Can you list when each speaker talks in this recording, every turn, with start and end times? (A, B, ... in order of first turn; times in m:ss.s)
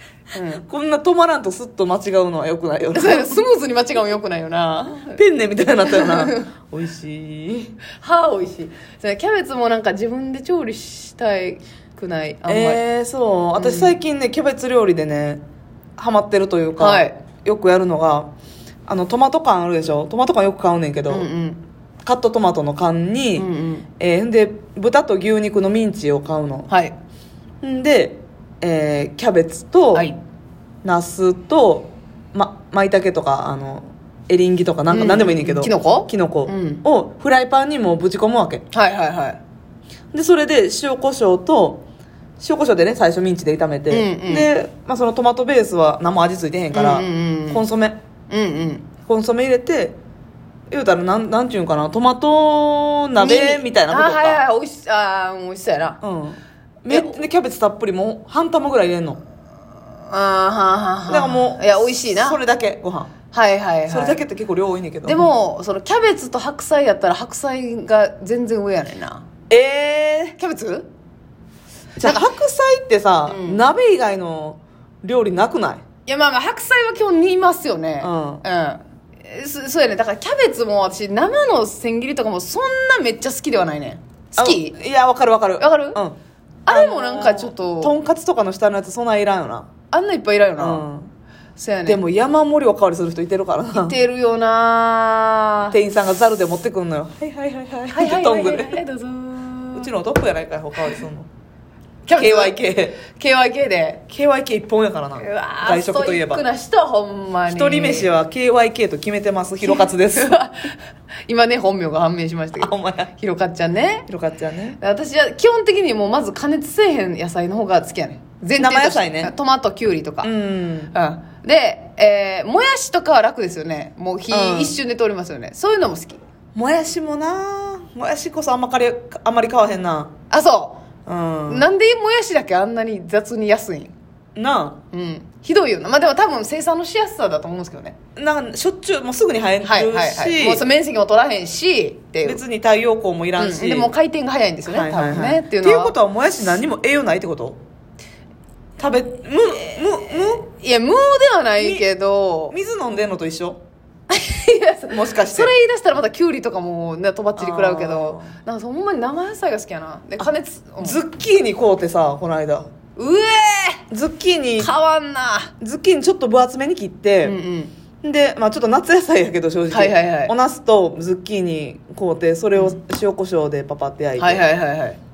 0:00.3-0:00.6 A
0:00.6-0:03.4 B
0:02.9-0:05.2 A
0:04.9-0:07.8 B
0:05.8-0:06.5 A
0:08.0-0:12.8 A
0:12.5-0:15.4 B
0:13.5-0:13.9 A
0:16.0-0:18.3 B
0:16.8-0:17.2 A
0:18.9-0:21.3 B
0:21.1-0:21.6 A
0:22.0-0:23.4 B
0:23.4-0:23.9 A
0:24.0-0:26.7 B
0:26.7-0:26.9 A
0:27.6-0:30.1 B
0:29.9-0:30.2 A
0:30.8-0:38.6 B
0:34.9-0:36.8 A
0:38.7-0:39.4 A
0:40.1-0:41.8 B
0:42.4-0:48.0 B
0:43.9-0:44.5 A
0:46.7-0:47.6 A
0:48.3-0:48.9 A
0:49.0-0:50.0 B
0:50.7-0:54.4 B
0:53.2-0:56.0 A
0:56.0-0:59.2 B
0:56.9-0:57.1 A
1:00.1-1:02.4 A
1:01.1-1:03.1 B
1:03.3-1:04.2 A
1:03.9-1:05.3 B
1:05.0-1:09.2 A
1:09.5-1:10.4 B
1:10.4-1:10.9 A
1:12.0-1:15.8 B
1:13.3-1:13.6 A
1:16.0-1:24.8 A
1:18.0-1:18.4 B
1:24.4-1:26.2 B
1:25.6-1:26.0 A
1:26.6-1:27.9 A
1:26.7-1:29.7 B
1:29.9-1:30.8 A
1:30.6-1:31.1 B
1:31.6-1:32.0 A
1:31.8-1:33.9 B
1:33.7-1:35.8 A
1:35.7-1:38.8 B
1:37.9-1:39.9 A
1:39.7-1:41.3 B
1:42.0-1:44.0 A
1:42.1-1:43.0 B
1:44.1-1:46.4 B
1:45.2-1:48.1 A
1:47.5-1:50.3 B
1:49.6-1:50.7 A
1:51.3-1:54.1 A
1:52.6-1:53.1 B
1:54.1-1:54.8 B
1:54.8-2:00.3 A
1:58.6-1:59.3 B
2:00.2-2:00.9 B
2:00.9-2:06.2 A
2:04.3-2:04.8 B
2:06.5-2:10.1 B
2:10.3-2:10.8 A
2:11.0-2:11.7 B
2:11.5-2:13.9 A
2:14.4-2:14.8 B
2:14.9-2:18.0 A
2:18.2-2:20.6 B
2:19.6-2:22.4 A
2:22.2-2:23.9 B
2:23.4-2:25.9 A
2:24.7-2:27.6 B
2:28.8-2:30.4 B
2:30.4-2:32.5 A
2:31.6-2:31.8 B
2:32.5-2:33.6 B
2:34.1-2:41.0 A
2:34.9-2:35.5 B
2:37.4-2:38.3 B
2:40.8-2:42.7 B
2:42.9-2:43.8 A
2:43.9-2:44.7 B
2:44.6-2:45.5 A
2:45.6-2:47.3 B
2:47.2-2:47.7 A
2:48.0-2:54.4 B
2:49.7-2:50.3 A
2:54.2-2:55.0 A